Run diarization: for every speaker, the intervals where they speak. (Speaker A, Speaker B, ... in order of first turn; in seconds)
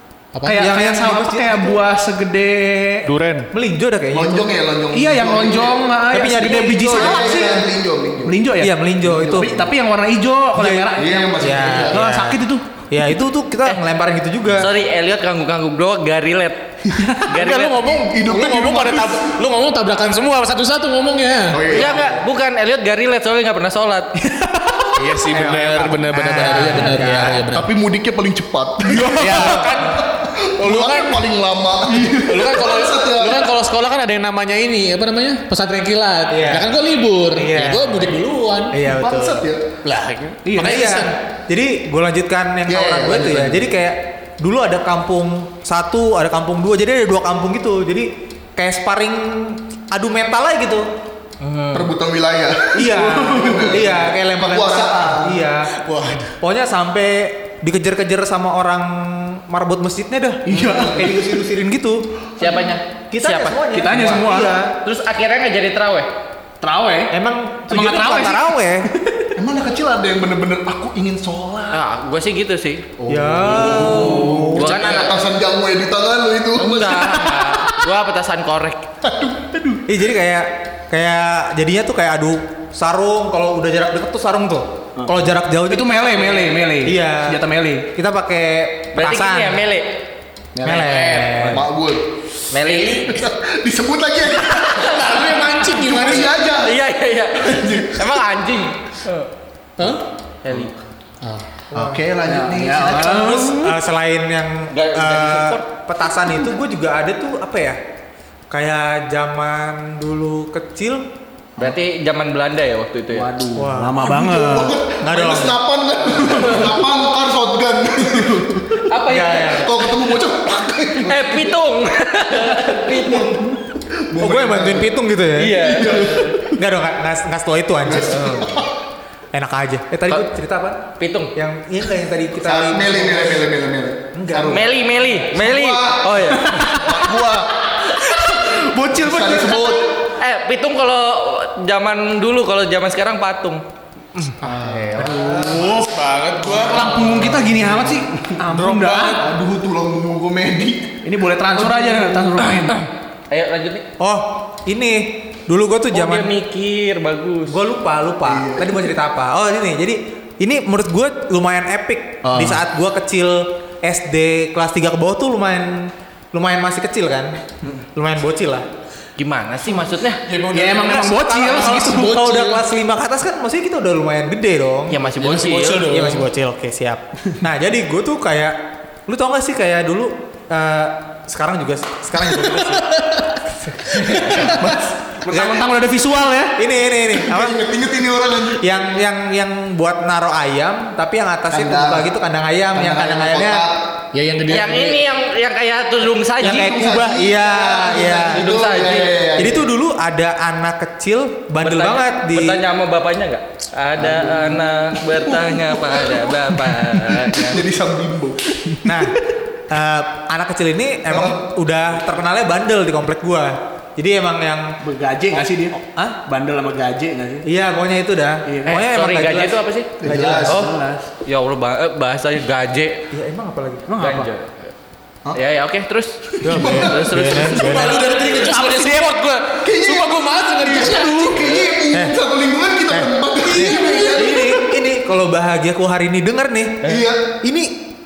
Speaker A: 0.3-0.7, 3.0-3.5, 17.2-21.8, 24.9-27.7, 28.9-31.2, 32.1-38.8, 39.8-41.1, 55.8-56.4, 90.6-91.5, 94.6-96.3, 99.8-100.0, 101.2-101.6, 144.4-147.7, 170.2-172.6, 175.1-176.3, 182.4-183.3, 183.9-184.6, 194.1-195.0, 227.4-231.6, 233.4-234.2
Speaker B: 0.4-1.8, 3.5-4.5, 6.1-7.6, 8.6-9.5, 10.6-14.7, 25.3-27.5, 29.2-29.9, 36.3-36.7, 37.3-38.1, 38.7-39.4, 40.6-50.9, 52.7-55.7, 56.4-62.0, 63.1-64.7, 67.1-68.9, 73.1-75.0, 79.9-87.4, 87.9-89.6, 90.6-91.7, 101.7-102.0, 102.9-107.8, 108.5-111.1, 113.5-114.2, 115.0-115.6, 119.0-119.7, 124.2-128.5, 129.3-133.4, 134.1-134.7, 154.0-156.3, 157.5-167.4, 167.9-168.7, 170.8-175.0, 175.6-182.9, 183.6-184.4, 185.3-185.6, 186.5-187.6, 188.6-193.7, 196.4-198.5, 199.3-202.6, 208.8-214.8, 215.3-216.2, 217.4-220.6, 223.1-223.9, 226.4-228.0, 231.9-232.2, 232.9-237.9
Speaker C: 0.4-3.1, 4.9-7.7, 8.2-8.7, 9.3-11.4, 11.9-12.6, 24.4-24.9, 40.5-40.8, 60.5-61.1, 63.7-64.6, 66.6-67.1, 67.7-68.5, 85.7-87.9, 102.2-103.8, 113.1-114.8, 136.4-136.9, 138.1-139.8, 145.0-145.8, 146.5-149.2, 151.0-152.8, 170.5-172.2, 185.2-186.6, 214.8-217.4, 218.5-218.8, 220.1-221.1, 223.9-224.3, 228.3-229.2
Speaker D: 4.1-5.8, 6.8-8.4, 9.0-9.7, 10.9-12.0, 18.1-19.3, 21.5-22.2, 27.5-33.5, 38.8-39.6, 42.7-43.6, 51.7-55.4, 60.5-61.1, 62.4-62.7, 69.3-71.8, 73.0-77.5, 79.0-79.8, 91.3-92.0, 92.8-96.8, 97.4-98.1, 101.7-103.4, 114.0-118.9, 119.5-121.6, 122.5-124.9, 125.7-126.5, 127.8-128.7, 132.4-137.5, 138.9-139.9, 144.4-145.3, 149.2-150.9, 158.2-158.9, 162.3-162.6, 184.4-184.9, 187.1-188.6, 191.5-192.1, 192.7-193.9, 196.4-199.7, 204.0-206.3, 206.9-208.8, 211.1-211.4, 220.0-220.6, 226.4-227.5, 229.6-234.7, 236.8-237.3
Speaker E: 14.5-18.0, 21.7-24.1, 51.4-51.9, 62.4-64.1, 64.7-66.1, 71.7-72.8, 73.6-75.1, 76.5-78.8, 88.9-90.0, 92.5-93.2, 96.4-99.3, 100.4-100.7, 104.7-105.6, 111.6-113.3, 118.9-119.7, 121.0-123.5, 125.3-126.4, 128.1-128.5, 131.0-131.3, 134.4-136.7, 140.2-143.6, 144.1-144.4, 152.7-153.8, 155.9-157.6, 169.2-170.2, 174.9-175.9, 194.5-196.7, 198.3-199.1, 201.6-207.6, 218.7-220.7, 221.2-223.0, 224.0-224.5, 225.3-227.9